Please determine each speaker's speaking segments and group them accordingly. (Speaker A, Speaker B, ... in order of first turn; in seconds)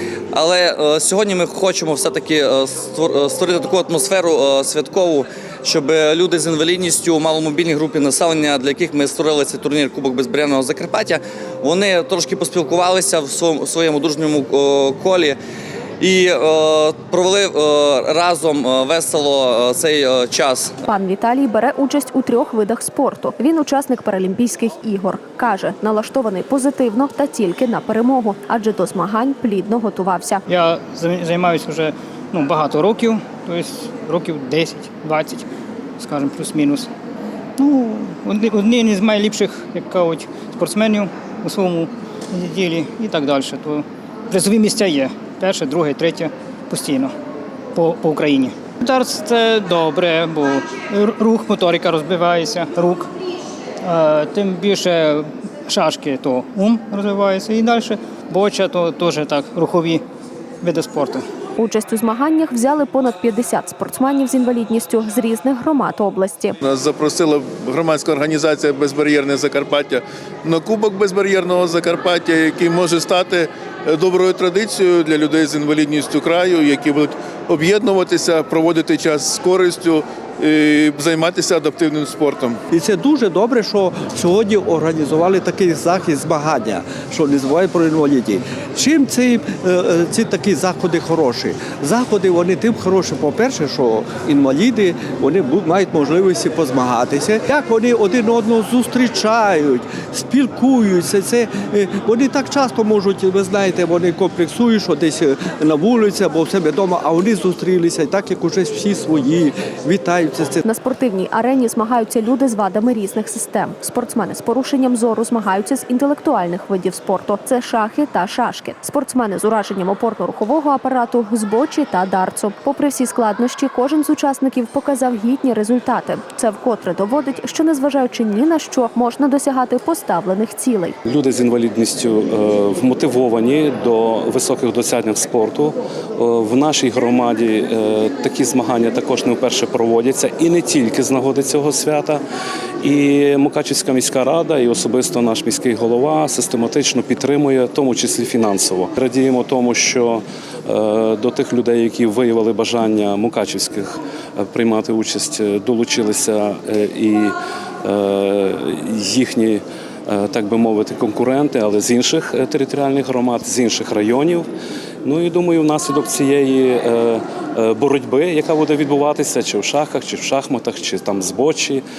Speaker A: 0.3-15.3, 16.0-20.8
Speaker B: 20.9-30.4, 61.6-66.6, 110.6-130.9
Speaker C: 30.5-35.5, 36.0-36.9, 37.6-47.1, 47.7-53.1, 53.8-60.0, 60.6-61.2
Speaker D: 66.6-82.6
Speaker E: 82.7-110.6
Speaker F: 131.1-142.2, 142.8-164.5, 165.0-171.8